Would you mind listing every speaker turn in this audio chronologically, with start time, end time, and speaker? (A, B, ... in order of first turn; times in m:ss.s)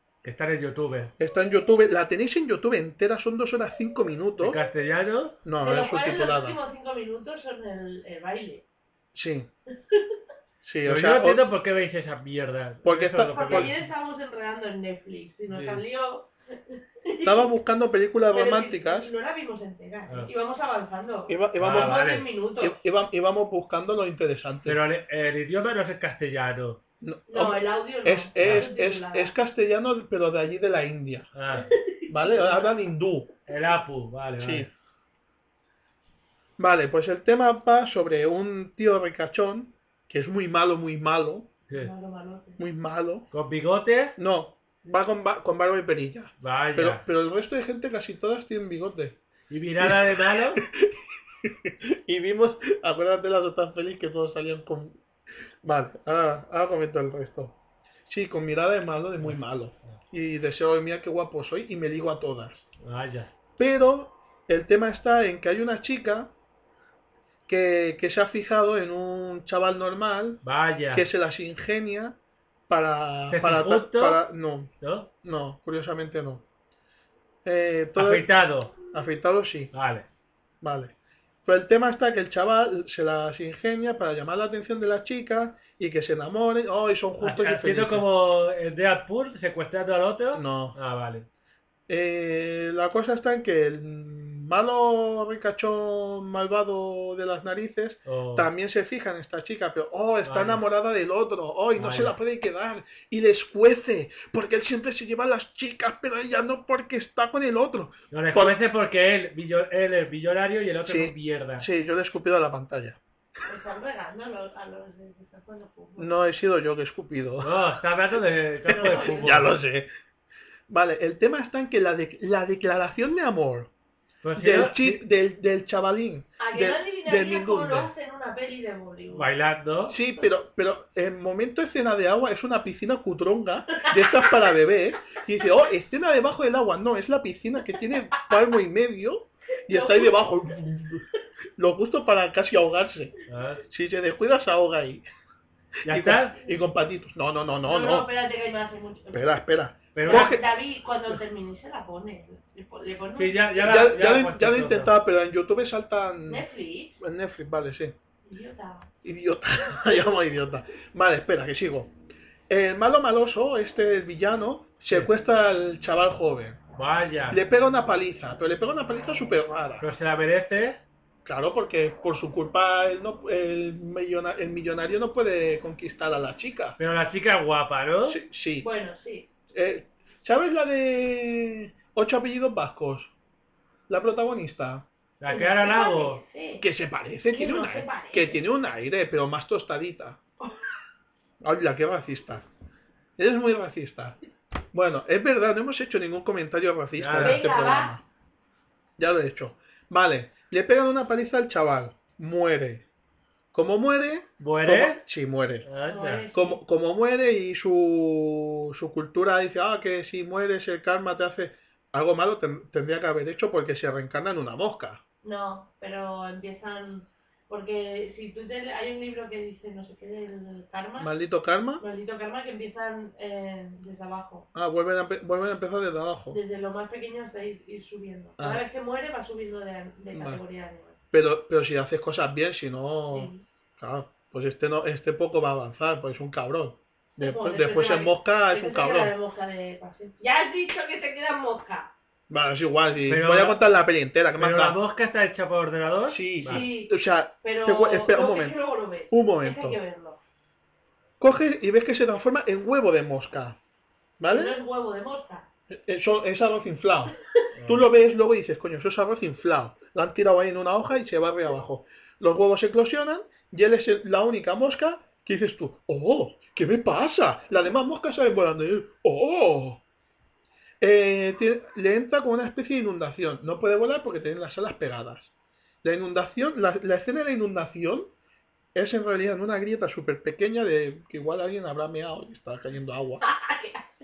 0:00.2-0:01.1 A
0:01.2-0:04.6 B
0:04.4-0:05.4 A
0:05.4-0:06.6 B
0:05.6-0:08.6 C
0:09.1-0:09.5 B
0:09.9-0:10.2 C
0:10.6-0:11.4 B
0:10.8-0:13.9 A
0:12.8-0:13.7 B
0:13.3-0:17.5 C
0:15.5-0:15.8 A
0:17.2-0:19.1 B
0:18.3-0:22.8 C
0:21.3-0:22.0 B
0:21.6-0:22.3 A
0:22.6-0:24.8 B
0:24.6-0:26.8 A
0:27.0-0:31.3 B
0:27.3-0:29.3 C
0:28.4-0:28.7 A
0:31.3-0:31.7 A
0:31.6-0:32.7 C
0:32.1-0:33.3 B
0:33.5-0:34.7 A
0:34.4-0:34.7 B
0:36.6-0:41.5 B
0:41.7-0:42.6 C
0:42.6-0:43.3 B
0:43.3-0:44.2 A
0:44.2-0:49.2 B
0:46.4-0:47.0 A
0:49.5-0:50.6 A
0:49.8-0:55.0 B
0:55.6-1:02.6 B
1:02.8-1:03.3 A
1:03.6-1:06.3 B
1:07.5-1:10.4 B
1:10.4-1:11.1 A
1:10.9-1:12.2 B
1:12.7-1:14.7 B
1:13.3-1:14.2 A
1:14.8-1:15.1 A
1:15.2-1:16.4 B
1:17.4-1:18.3 B
1:18.0-1:18.7 A
1:18.9-1:19.7 B
1:19.7-1:20.1 A
1:20.6-1:20.9 B
1:21.4-1:28.0 B
1:27.2-1:31.2 A
1:30.3-1:30.8 B
1:31.9-1:48.6 B
1:38.0-1:38.5 A
1:40.2-1:40.6 A
1:41.7-1:42.1 A
1:48.1-1:51.7 A
1:50.8-1:53.0 B
1:53.4-1:56.1 C
1:56.0-1:57.6 B
1:57.4-1:59.5 A
1:58.7-1:59.9 B
1:58.7-1:59.4 C
2:00.7-2:03.7 B
2:04.2-2:05.0 A
2:04.4-2:07.9 B
2:06.4-2:09.3 C
2:09.1-2:10.0 A
2:09.9-2:21.0 B
2:19.7-2:20.2 C
2:21.6-2:23.1 B
2:23.3-2:23.6 A
2:23.7-2:25.0 B
2:25.8-2:26.4 A
2:25.8-2:28.1 B
2:27.6-2:29.3 C
2:29.1-2:30.4 B
2:29.9-2:30.4 A
2:30.0-2:33.6 C
2:33.2-2:34.9 A
2:33.6-2:36.4 B
2:36.3-2:37.0 C
2:37.0-2:38.0 B
2:38.2-2:38.9 C
2:39.0-2:41.9 B
2:42.5-2:46.6 B
2:46.8-2:47.4 A
2:47.3-2:49.8 B
2:49.8-2:50.8 A
2:51.2-2:56.8 B
2:56.8-2:58.2 A
2:58.1-2:58.7 B
2:58.6-2:59.3 C
2:59.5-3:03.1 B
3:03.9-3:04.8 B
3:05.2-3:06.2 A
3:05.3-3:06.6 C
3:06.6-3:10.2 B
3:07.3-3:08.4 C
3:11.4-3:12.4 B
3:13.2-3:14.2 B
3:14.7-3:18.0 B
3:17.0-3:17.5 A
3:17.1-3:17.9 C
3:19.0-3:22.8 B
3:23.5-3:25.7 B
3:24.4-3:25.0 A
3:25.6-3:26.3 A
3:25.8-3:26.6 C
3:26.3-3:35.0 B
3:35.2-3:41.1 C
3:41.0-3:41.8 B
3:41.8-3:44.5 C
3:44.5-3:46.4 B
3:46.3-3:51.0 C
3:48.4-3:48.6 B
3:50.1-3:50.4 B
3:51.1-3:59.1 B
3:53.1-3:53.4 C
3:57.2-4:01.9 C
4:02.3-4:04.8 B
4:03.1-4:03.6 A
4:04.4-4:06.7 A
4:06.1-4:08.6 B
4:06.4-4:10.2 C
4:09.1-4:09.8 B
4:11.2-4:13.6 B
4:14.2-4:14.6 B
4:14.3-4:15.5 C
4:15.7-4:17.1 B
4:17.6-4:17.8 A
4:17.6-4:29.8 B
4:30.8-4:35.3 B
4:35.8-4:38.1 B
4:38.7-4:43.3 B
4:43.2-4:43.8 C